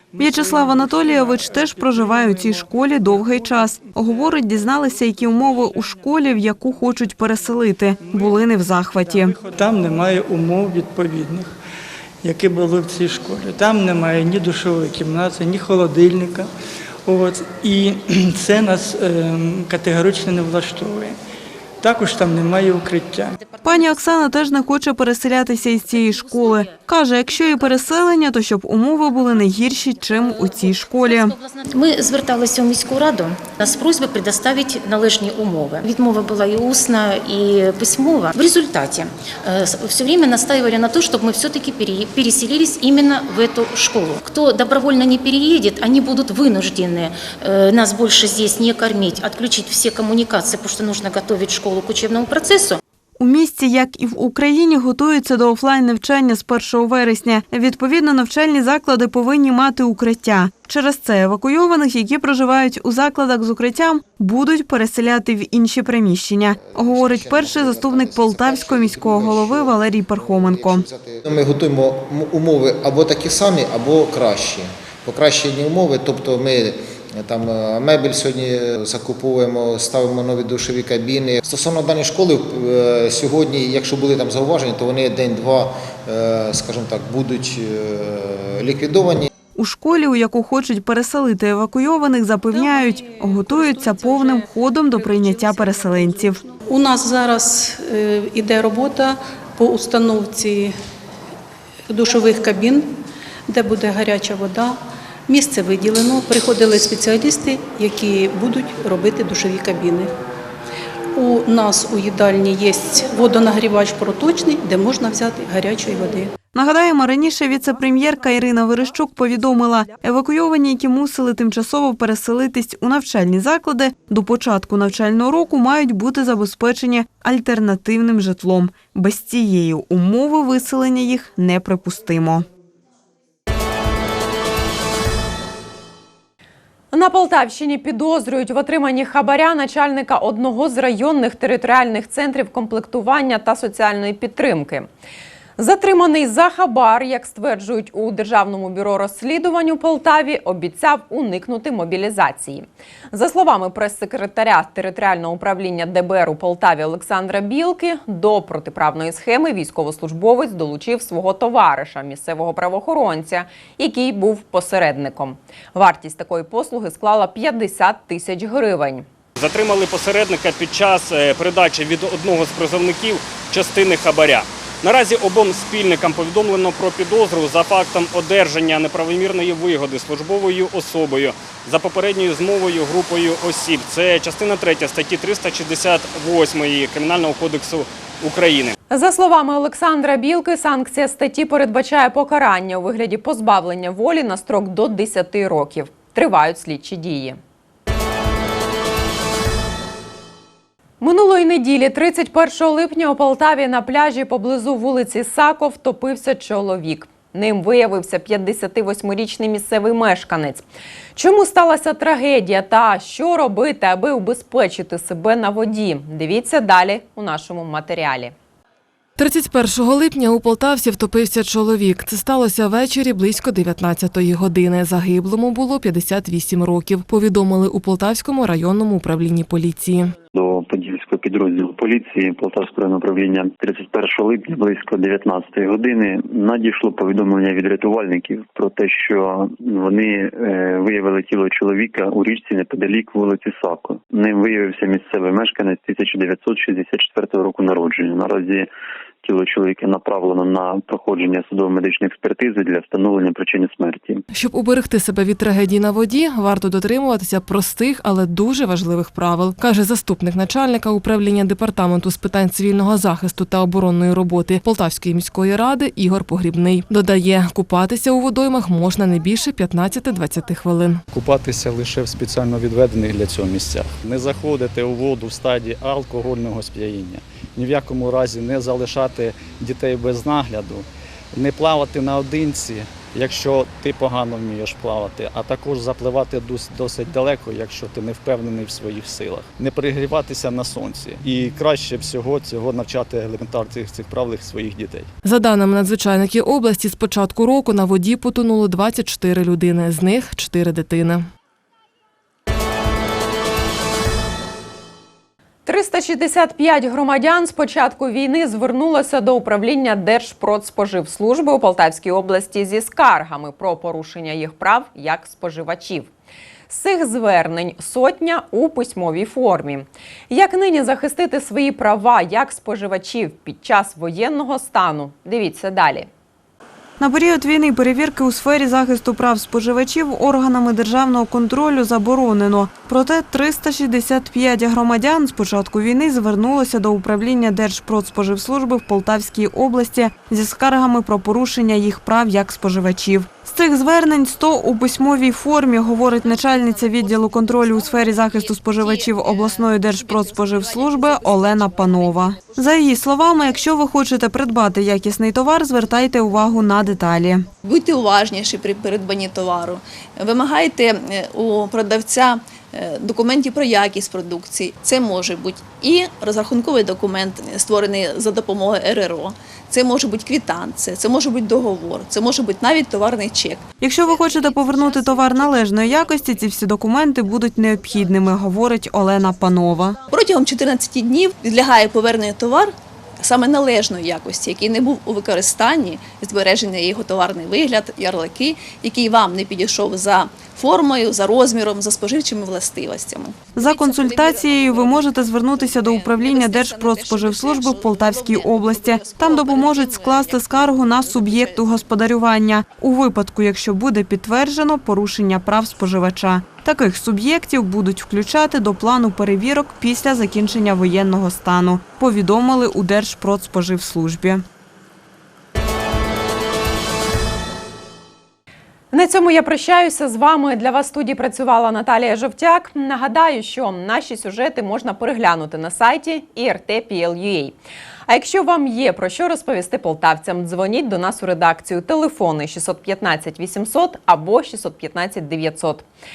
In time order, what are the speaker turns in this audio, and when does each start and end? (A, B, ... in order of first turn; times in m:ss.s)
0:00.2-0:09.4 A
0:09.4-0:11.6 B
0:12.2-0:16.5 B
0:17.0-0:21.2 B
0:21.8-0:23.4 B
0:23.4-0:24.1 C
0:23.6-0:31.4 A
0:26.0-0:26.8 C
0:31.1-0:52.8 C
0:53.2-1:10.8 A
1:06.6-1:29.3 D
1:29.5-1:36.4 A
1:32.5-1:40.8 E
1:41.9-1:50.1 E
1:51.1-1:56.4 E
1:56.5-2:12.5 A
2:16.9-2:24.9 F
2:25.6-2:49.0 F
2:49.4-3:08.8 G
3:08.9-3:17.4 F
3:21.0-3:30.6 F
3:31.2-3:38.3 F
3:39.2-3:50.1 H
3:50.3-4:08.7 I
4:09.2-4:14.2 I
4:14.3-4:31.0 H
4:31.1-4:55.1 J
4:55.2-5:01.2 H
5:05.7-5:16.1 F
5:16.7-5:26.1 F
5:27.0-5:57.5 A
5:46.4-5:52.6 K
5:57.6-6:13.7 K
6:13.8-6:20.0 A
6:20.1-6:41.9 K
6:33.6-6:54.4 A
6:58.9-7:07.6 F
7:08.1-7:15.8 F